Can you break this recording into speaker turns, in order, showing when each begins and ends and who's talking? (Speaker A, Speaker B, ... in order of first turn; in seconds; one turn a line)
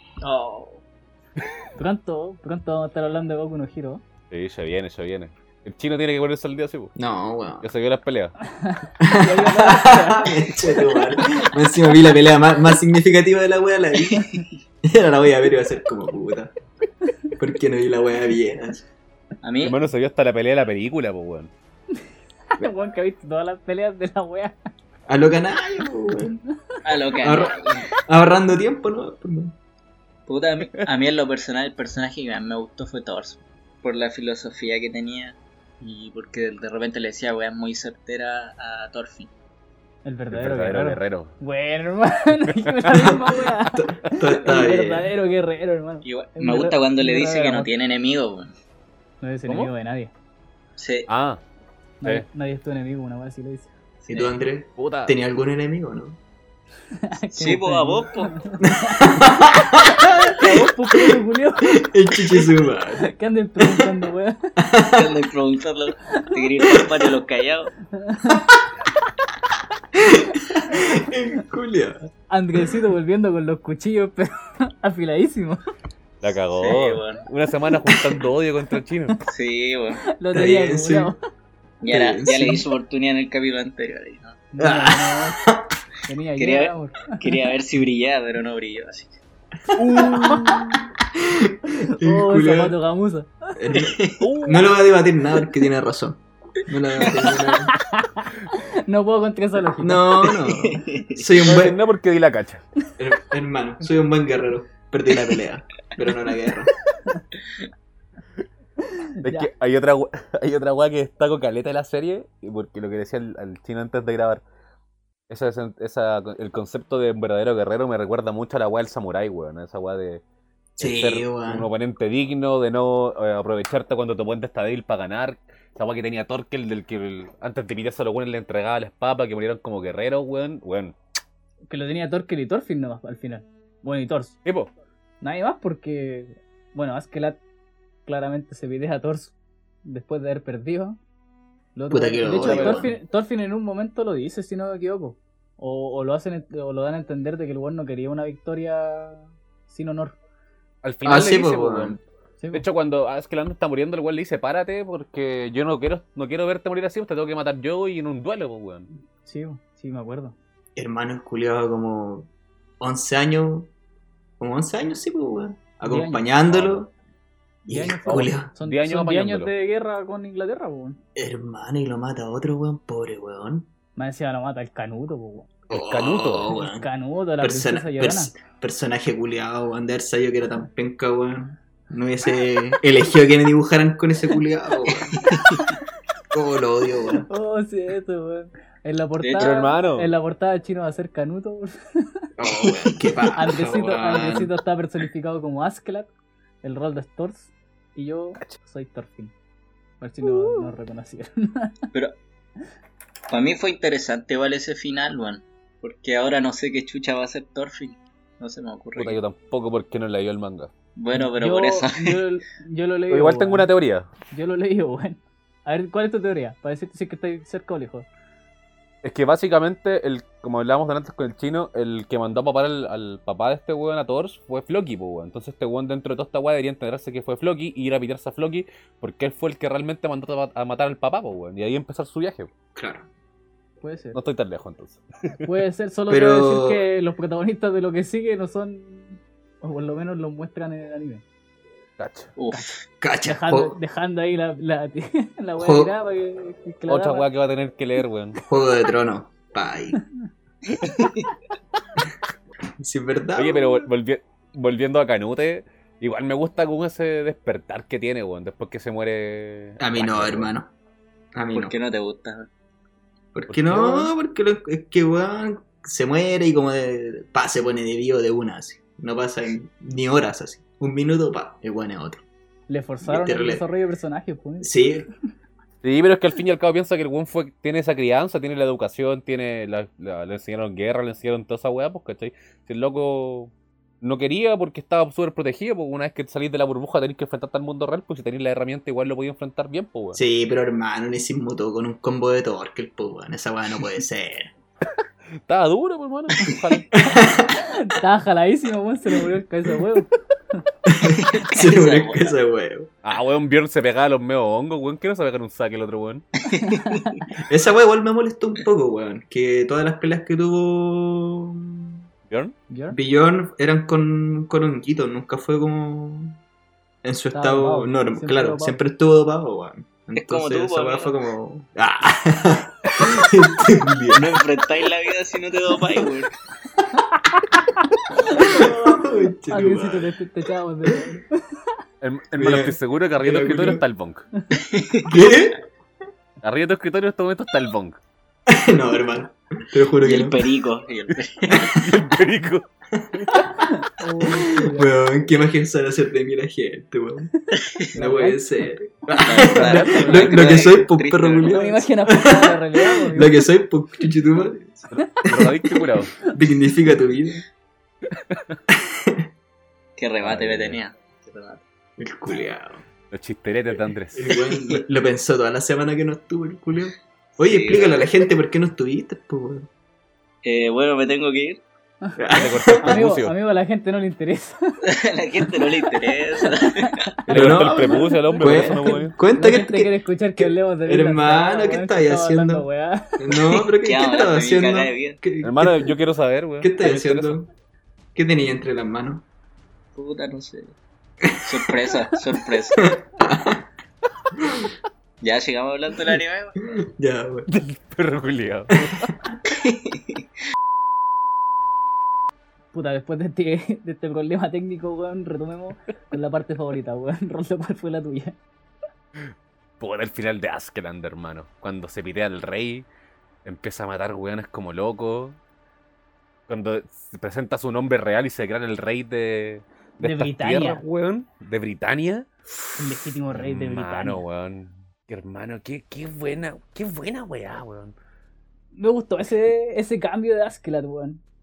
Speaker A: 0.2-0.8
Speaker B: 1.8-4.0
Speaker C: 4.3-6.9
Speaker D: 7.0-7.7
Speaker C: 7.6-8.3
Speaker B: 8.6-10.3
Speaker D: 9.0-14.3
Speaker D: 14.8-16.5
Speaker D: 17.4-18.9
Speaker A: 19.4-19.8
Speaker C: 19.6-21.5
Speaker B: 22.6-24.6
Speaker D: 25.1-26.4
Speaker A: 26.8-27.9
Speaker D: 27.2-29.6
Speaker A: 30.3-39.3
Speaker B: 40.0-47.7
Speaker C: 40.3-41.3
Speaker C: 42.5-43.0
Speaker D: 43.1-45.1
Speaker A: 46.0-48.5
Speaker B: 49.2-50.1
Speaker C: 49.5-49.7
Speaker A: 50.8-51.1
Speaker C: 51.1-51.4
Speaker B: 52.0-53.7
Speaker D: 54.1-56.2
Speaker C: 54.8-55.1
Speaker B: 56.9-59.5
Speaker A: 57.3-58.4
Speaker D: 58.6-61.1
Speaker B: 60.3-61.8
Speaker D: 61.8-63.9
Speaker B: 63.0-64.5
Speaker D: 64.6-65.1
Speaker A: 64.9-67.7
Speaker B: 66.2-66.5
Speaker B: 68.0-68.5
Speaker D: 70.0-72.0
Speaker B: 72.3-75.6
Speaker C: 76.2-79.1
Speaker A: 76.6-77.2
Speaker A: 79.2-80.0
Speaker B: 80.2-81.2
Speaker D: 80.3-81.1
Speaker A: 81.8-84.4
Speaker D: 81.8-82.6
Speaker B: 84.5-85.4
Speaker D: 84.6-85.6
Speaker B: 86.1-87.4
Speaker A: 86.4-89.2
Speaker C: 89.8-90.8
Speaker D: 89.8-92.8
Speaker B: 92.0-93.5
Speaker D: 93.6-97.7
Speaker A: 94.0-94.2
Speaker C: 94.2-94.8
Speaker B: 97.7-100.3
Speaker D: 99.8-101.8
Speaker A: 100.7-101.4
Speaker C: 101.4-102.6
Speaker D: 103.0-106.7
Speaker B: 108.9-109.5
Speaker C: 109.2-114.4
Speaker C: 115.3-120.2
Speaker C: 120.8-131.0
Speaker D: 120.8-121.7
Speaker B: 131.7-134.4
Speaker C: 134.4-134.7
Speaker B: 135.2-137.4
Speaker B: 138.1-139.3
Speaker B: 139.8-141.0
Speaker B: 141.8-150.2
Speaker D: 141.9-142.9
Speaker C: 142.2-142.9
Speaker C: 150.8-152.0
Speaker D: 151.1-152.0
Speaker B: 152.4-152.7
Speaker C: 152.5-158.9
Speaker B: 159.2-160.4
Speaker D: 160.8-162.3
Speaker D: 162.8-163.7
Speaker D: 164.4-166.9
Speaker B: 165.8-166.3
Speaker C: 166.5-166.8
Speaker D: 167.7-168.5
Speaker B: 167.7-171.0
Speaker C: 168.0-169.5
Speaker D: 171.2-173.7
Speaker B: 174.0-175.5
Speaker D: 175.7-176.9
Speaker C: 175.7-176.5
Speaker B: 176.5-178.3
Speaker D: 177.4-185.3
Speaker A: 185.2-185.6
Speaker D: 186.3-187.3
Speaker B: 187.3-192.3
Speaker A: 189.2-189.5
Speaker C: 189.4-190.1
Speaker D: 192.4-194.5
Speaker B: 193.3-196.1
Speaker B: 196.6-199.3
Speaker B: 200.0-201.7
Speaker A: 203.3-209.2
Speaker C: 209.0-210.7
Speaker A: 211.0-212.2
Speaker B: 211.1-213.7
Speaker C: 213.1-214.1
Speaker B: 214.3-218.1
Speaker C: 219.0-232.5
Speaker D: 232.8-233.1
Speaker B: 233.8-234.2
Speaker C: 234.1-235.5
Speaker B: 235.4-241.2
Speaker D: 236.1-236.8
Speaker C: 242.0-242.3
Speaker A: 242.4-242.8
Speaker D: 243.0-243.8
Speaker B: 243.2-247.3
Speaker D: 245.6-245.9
Speaker C: 246.9-248.4
Speaker D: 248.4-250.0
Speaker A: 250.8-251.3
Speaker D: 252.8-253.9
Speaker C: 253.3-260.5
Speaker D: 259.8-260.7
Speaker D: 261.4-261.7
Speaker A: 261.5-262.5
Speaker D: 263.3-272.2
Speaker C: 263.5-264.0
Speaker B: 263.7-264.1
Speaker B: 272.7-274.8
Speaker D: 273.0-273.6
Speaker D: 274.6-275.1
Speaker C: 275.8-290.2
Speaker D: 290.1-294.5
Speaker C: 295.4-296.9
Speaker D: 297.0-297.6
Speaker B: 297.5-300.6
Speaker D: 300.9-302.9
Speaker A: 301.2-302.4
Speaker C: 303.0-306.2
Speaker A: 306.5-307.2
Speaker B: 306.6-307.3
Speaker D: 307.4-312.0
Speaker C: 312.3-312.5
Speaker B: 312.7-313.0
Speaker D: 312.9-316.4
Speaker D: 317.0-324.4
Speaker B: 317.3-318.8
Speaker A: 320.2-321.1
Speaker A: 324.1-326.3
Speaker B: 326.9-327.6
Speaker B: 328.1-331.6
Speaker D: 328.2-330.1
Speaker C: 332.0-334.2
Speaker D: 332.4-333.8
Speaker A: 334.5-335.4
Speaker D: 335.0-335.6
Speaker C: 336.4-338.0
Speaker D: 338.5-340.5
Speaker A: 340.0-341.8
Speaker D: 341.5-342.0
Speaker C: 341.6-343.5
Speaker D: 343.0-343.6
Speaker B: 343.6-345.0
Speaker D: 344.2-347.3
Speaker B: 347.9-348.4
Speaker D: 347.9-355.5
Speaker A: 349.2-351.8
Speaker C: 349.5-350.7
Speaker B: 351.5-353.4
Speaker C: 354.9-356.1
Speaker B: 355.2-355.9
Speaker D: 356.3-357.4
Speaker C: 358.1-358.6
Speaker D: 358.7-359.3
Speaker A: 360.0-361.6
Speaker C: 360.2-360.8
Speaker D: 362.0-362.9
Speaker C: 363.1-364.4
Speaker D: 364.1-369.7
Speaker A: 367.5-368.1
Speaker A: 370.4-371.6
Speaker D: 372.2-373.0
Speaker C: 372.3-373.3
Speaker B: 372.8-374.8
Speaker A: 374.9-377.1
Speaker B: 375.4-375.9
Speaker B: 376.4-383.2
Speaker D: 377.3-382.7
Speaker C: 377.3-379.1
Speaker D: 383.2-385.9
Speaker A: 383.5-385.2
Speaker C: 385.4-387.4
Speaker D: 386.6-387.5
Speaker D: 388.1-389.2
Speaker A: 390.0-390.8
Speaker D: 391.3-391.7
Speaker A: 391.3-392.9
Speaker D: 392.7-393.6
Speaker D: 394.4-394.7
Speaker A: 395.2-396.6
Speaker D: 396.7-397.5
Speaker C: 397.5-399.1
Speaker D: 398.8-399.1
Speaker A: 399.5-400.2
Speaker B: 402.7-408.4
Speaker C: 409.2-412.9
Speaker C: 413.4-415.4
Speaker C: 416.5-422.3
Speaker B: 420.0-420.8
Speaker B: 422.8-424.2
Speaker C: 423.3-427.9
Speaker B: 428.7-431.2